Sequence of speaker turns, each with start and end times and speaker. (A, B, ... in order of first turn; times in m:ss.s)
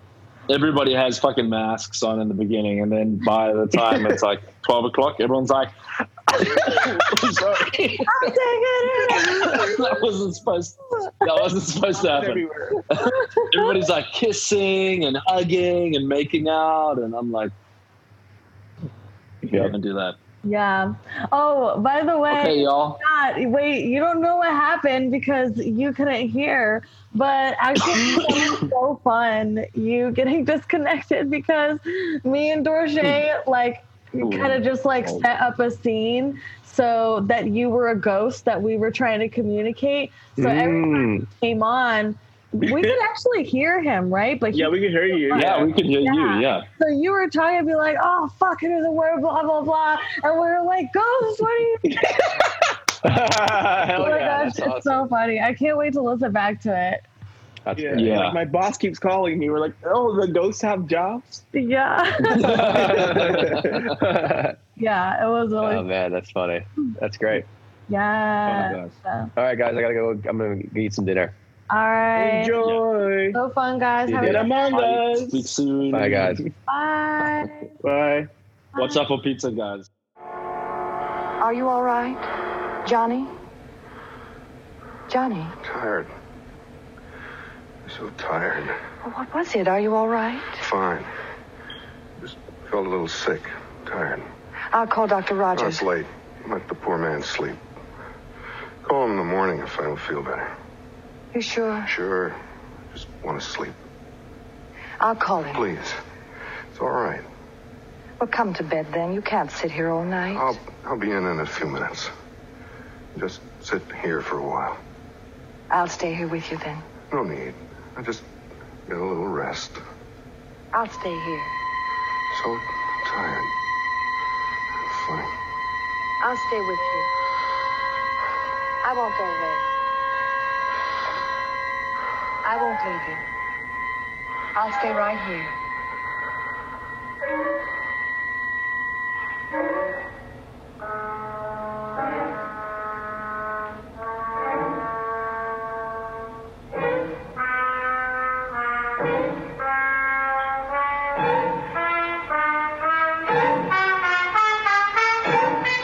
0:00.5-0:05.7 A
0:03.8-0:04.2 B
0:06.3-0:08.1 A
0:06.3-0:08.1 B
0:08.1-0:09.9 C
0:09.1-0:17.5 A
0:09.2-0:09.8 B
0:11.9-0:12.9 B
0:13.0-0:13.4 C
0:19.4-0:20.2 A
0:20.4-0:52.0 C
0:22.3-0:23.0 A
0:40.4-0:41.3 D
0:42.6-0:43.0 B
0:44.5-0:45.7 B
0:45.3-0:46.7 A
0:51.9-0:54.4 B
0:53.0-0:55.1 D
0:54.0-0:57.0 C
0:57.6-0:58.2 D
0:57.7-1:01.4 B
0:58.0-0:58.4 A
1:01.5-1:02.6 C
1:02.4-1:03.9 A
1:02.4-1:03.9 B
1:02.4-1:04.6 D
1:04.8-1:05.8 C
1:05.6-1:07.5 D
1:07.9-1:09.3 C
1:08.4-1:08.9 A
1:09.4-1:11.3 D
1:11.7-1:12.6 C
1:12.1-1:13.4 B
1:13.3-1:14.4 C
1:14.1-1:14.5 D
1:14.2-1:15.5 B
1:14.2-1:16.5 A
1:15.9-1:16.4 D
1:16.7-1:17.7 C
1:17.8-1:18.3 B
1:18.8-1:19.9 A
1:18.8-1:19.0 C
1:21.4-1:22.2 E
1:22.8-1:23.3 E
1:25.1-1:25.6 E
1:25.6-1:26.1 F
1:27.9-1:28.8 F
1:29.0-1:30.6 E
1:30.6-1:31.1 F
1:32.2-1:34.2 F
1:34.7-1:35.9 E
1:35.5-1:37.6 F
1:38.8-1:40.5 F
1:41.3-1:41.9 E
1:41.9-1:42.4 F
1:42.9-1:43.7 F
1:45.0-1:45.7 E
1:45.5-1:46.0 F
1:46.7-1:47.2 F
1:48.2-1:50.5 E
1:50.3-1:52.1 F
1:53.2-1:54.8 F
1:55.7-1:56.8 E
1:57.1-1:58.3 F
1:58.9-1:59.8 F
2:00.7-2:01.5 E
2:02.3-2:03.5 F
2:04.9-2:05.3 F
2:06.2-2:07.1 E
2:08.8-2:09.6 E
2:12.4-2:13.2 E
2:14.6-2:15.6 E